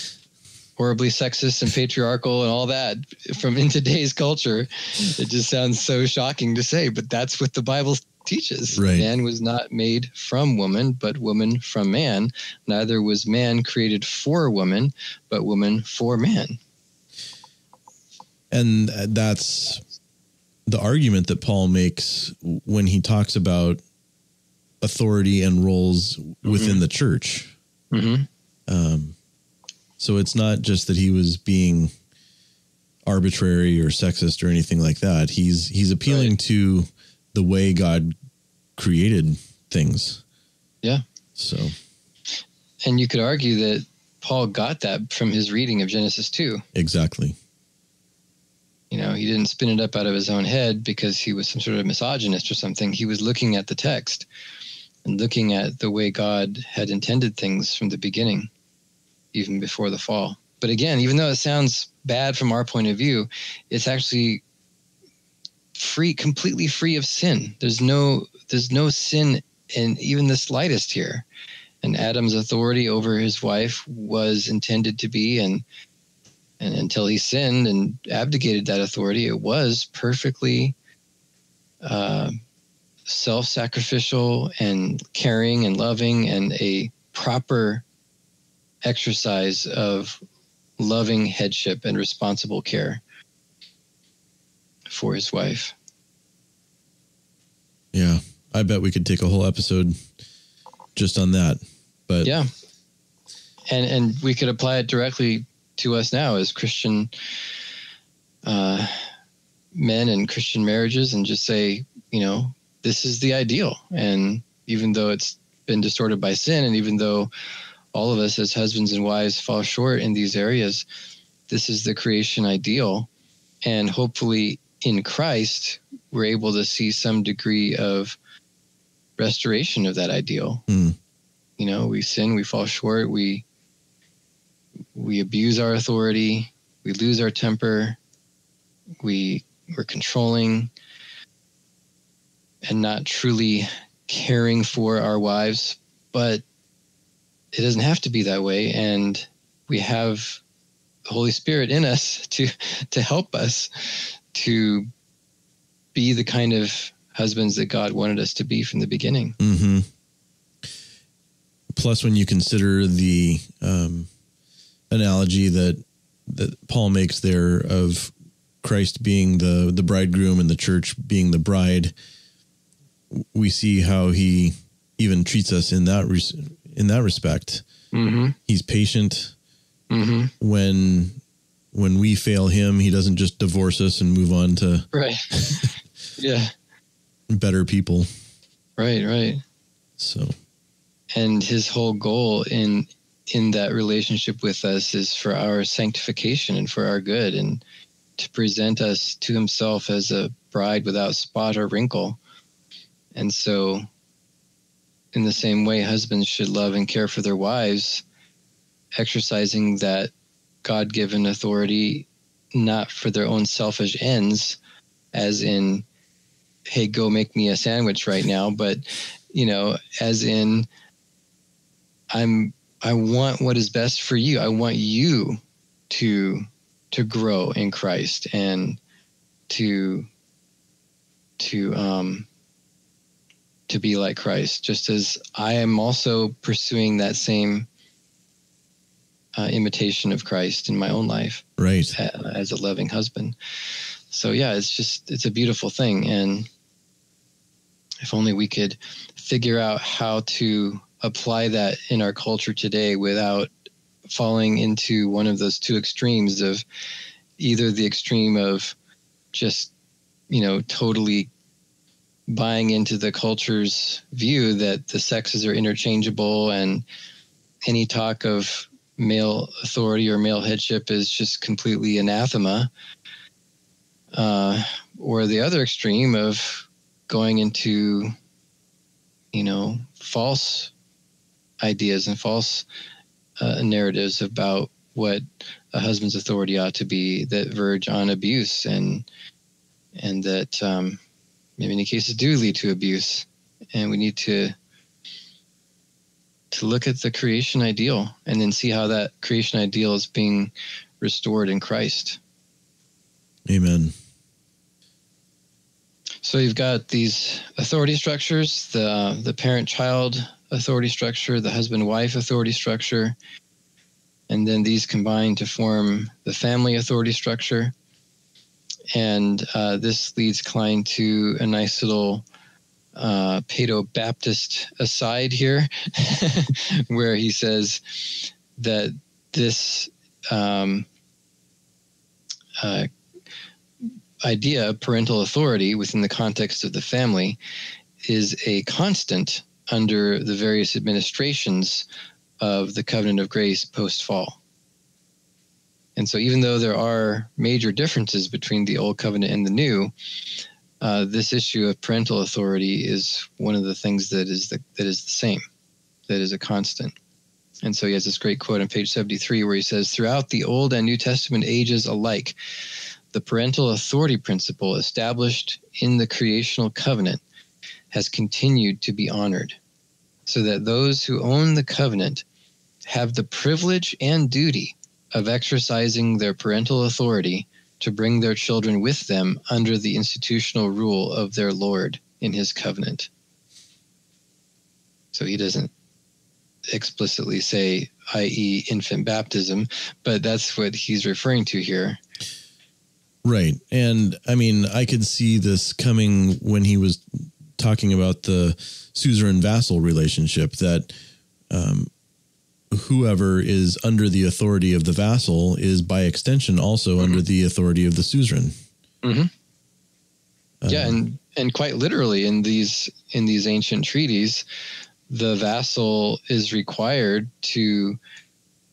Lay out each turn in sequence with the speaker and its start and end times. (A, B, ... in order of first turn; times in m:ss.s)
0:00.8-0:16.6 A
0:08.7-0:09.1 B
0:18.5-0:19.8 B
0:20.7-0:23.8 B
0:24.8-0:27.5 B
0:26.4-0:26.8 A
0:27.9-0:28.3 A
0:28.7-0:29.2 B
0:30.0-0:31.9 B
0:33.1-0:38.1 B
0:38.8-0:40.2 B
0:41.4-0:41.8 B
0:42.8-0:46.6 A
0:46.7-0:47.4 B
0:48.9-0:54.3 A
0:55.0-0:58.5 A
0:59.3-1:04.4 A
1:05.7-1:11.3 A
1:11.8-1:15.6 A
1:16.6-1:20.8 A
1:21.8-1:22.4 A
1:23.1-1:27.8 A
1:28.8-1:30.2 A
1:30.8-1:33.0 A
1:34.9-1:35.8 A
1:37.9-1:40.0 B
1:41.0-1:42.3 B
1:42.2-1:42.5 A
1:43.7-1:47.1 A
1:48.4-1:49.0 A
1:49.7-1:57.3 A
1:57.9-2:00.9 A
2:01.5-2:03.1 A
2:03.6-2:08.2 A
2:09.2-2:10.6 A
2:10.7-2:11.0 B
2:11.6-2:13.4 A
2:14.9-2:18.0 A
2:19.0-2:20.7 A
2:22.6-2:26.4 A
2:27.5-2:30.4 A
2:31.1-2:34.9 A
2:35.9-2:39.4 A
2:39.4-2:39.9 B
2:41.7-2:44.1 B
2:44.9-2:51.9 B
2:53.1-2:57.6 B
2:57.9-2:58.4 A
2:58.5-2:59.3 B
2:59.9-3:00.3 A
3:00.4-3:01.2 B
3:01.7-3:05.7 B
3:04.9-3:05.6 A
3:06.2-3:06.5 A
3:07.3-3:08.1 B
3:08.8-3:09.4 A
3:10.0-3:10.4 B
3:11.1-3:17.6 A
3:18.2-3:22.2 A
3:23.1-3:23.9 A
3:25.1-3:28.0 A
3:29.0-3:30.1 A
3:30.6-3:34.6 A
3:35.1-3:35.9 A
3:36.7-3:40.7 A
3:42.1-3:48.8 A
3:49.5-3:50.1 A
3:51.4-3:52.3 A
3:53.7-3:57.7 A
3:59.4-4:01.4 A
4:01.6-4:02.0 B
4:02.0-4:03.4 A
4:04.1-4:06.5 A
4:08.0-4:13.5 A
4:14.1-4:16.6 A
4:17.4-4:18.8 A
4:19.3-4:19.7 A
4:20.3-4:21.3 A
4:22.3-4:26.8 A
4:27.6-4:32.7 A
4:34.1-4:38.1 A
4:39.3-4:40.7 A
4:41.6-4:42.7 A
4:43.4-4:49.1 A
4:50.0-4:51.0 A
4:51.6-4:54.6 A
4:56.5-5:02.2 A
5:03.5-5:03.9 B
5:06.2-5:13.2 A
5:14.3-5:17.7 A
5:18.9-5:22.3 A
5:23.0-5:30.9 A
5:32.6-5:32.9 A
5:33.8-5:37.4 A
5:38.0-5:41.9 A
5:42.4-5:44.4 A
5:46.0-5:49.9 A
5:50.8-5:55.4 A
5:56.1-5:57.0 A
5:57.6-6:02.4 A
6:03.1-6:07.2 A
6:07.9-6:09.6 A
6:10.3-6:12.2 A
6:12.8-6:23.1 A
6:25.1-6:25.7 A
6:26.7-6:32.0 A
6:33.2-6:40.9 B
6:41.5-6:41.9 B
6:42.7-6:48.5 B
6:49.0-6:49.3 A
6:50.6-6:51.0 B
6:50.7-6:54.4 A
6:55.1-6:58.0 A